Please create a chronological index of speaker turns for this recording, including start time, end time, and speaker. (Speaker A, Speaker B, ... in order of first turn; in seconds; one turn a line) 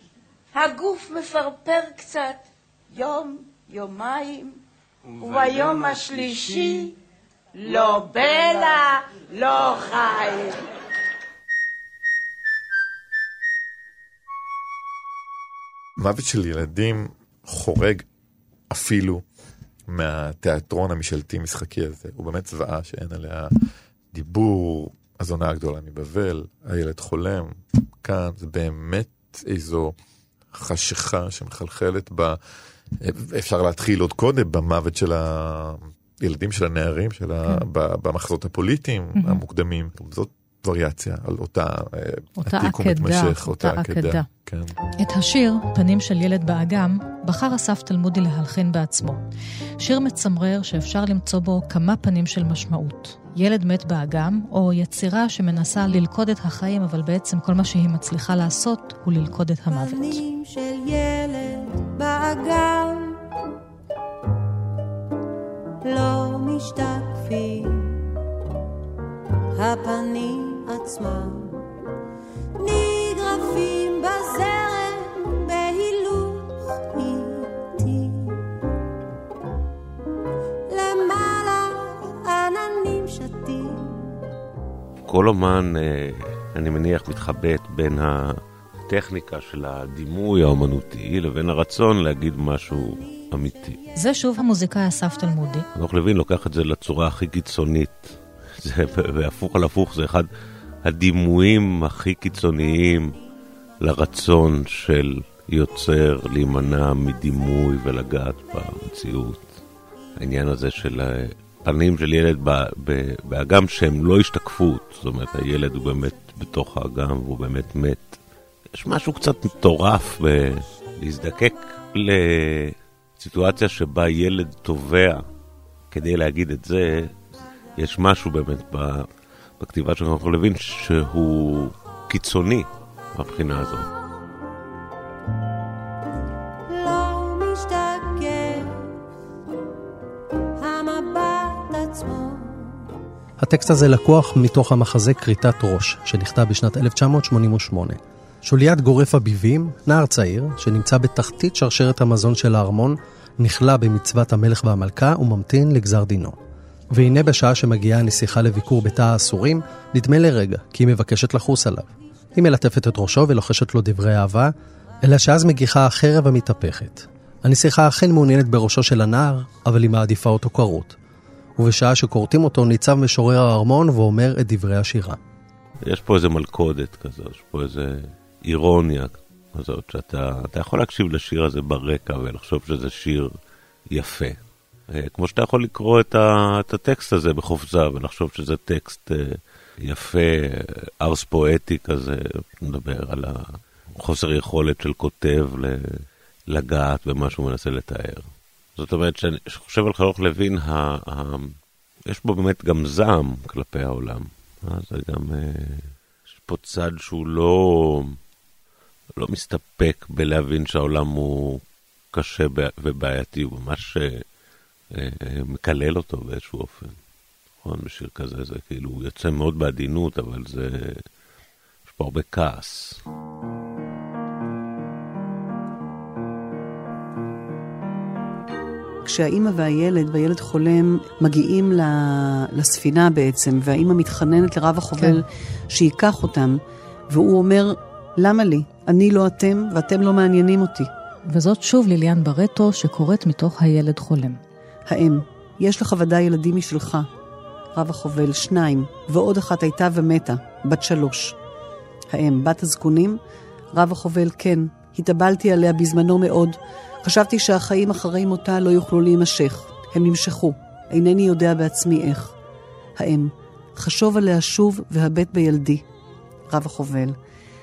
Speaker A: 0.5-4.6
Speaker A: 5.2-6.9
Speaker A: 7.5-10.6
Speaker B: 16.0-18.0
Speaker B: 18.7-19.2
Speaker B: 19.9-23.5
Speaker B: 24.1-29.9
Speaker B: 30.5-32.4
Speaker B: 33.0-44.7
Speaker C: 39.1-39.4
Speaker C: 42.4-44.2
Speaker C: 45.0-49.2
Speaker C: 49.8-60.2
Speaker D: 59.7-63.2
Speaker D: 65.8-68.0
Speaker D: 69.5-71.6
Speaker D: 72.5-78.5
Speaker D: 80.7-84.2
Speaker E: 85.1-93.8
Speaker C: 94.0-95.7
Speaker E: 95.7-100.3
Speaker E: 100.8-103.2
Speaker E: 103.8-109.6
Speaker E: 110.2-118.2
Speaker E: 118.7-125.2
Speaker E: 125.9-127.1
Speaker E: 127.8-129.1
Speaker E: 129.6-133.9
Speaker D: 136.7-138.9
Speaker D: 140.6-142.8
Speaker F: 143.4-156.4
Speaker F: 156.9-171.0
Speaker F: 171.6-175.2
Speaker E: 175.8-183.3
Speaker E: 183.9-184.4
Speaker E: 184.9-201.6
Speaker E: 202.1-208.2
Speaker E: 209.2-211.6
Speaker E: 212.1-214.2
Speaker E: 214.9-217.0
Speaker E: 217.6-221.1
Speaker E: 221.9-223.0
Speaker G: 229.0-240.9
Speaker C: 241.3-244.4
Speaker G: 244.9-247.1
Speaker G: 247.7-251.3
Speaker G: 252.1-253.2
Speaker G: 253.7-262.3
Speaker G: 263.0-265.8
Speaker G: 266.5-267.1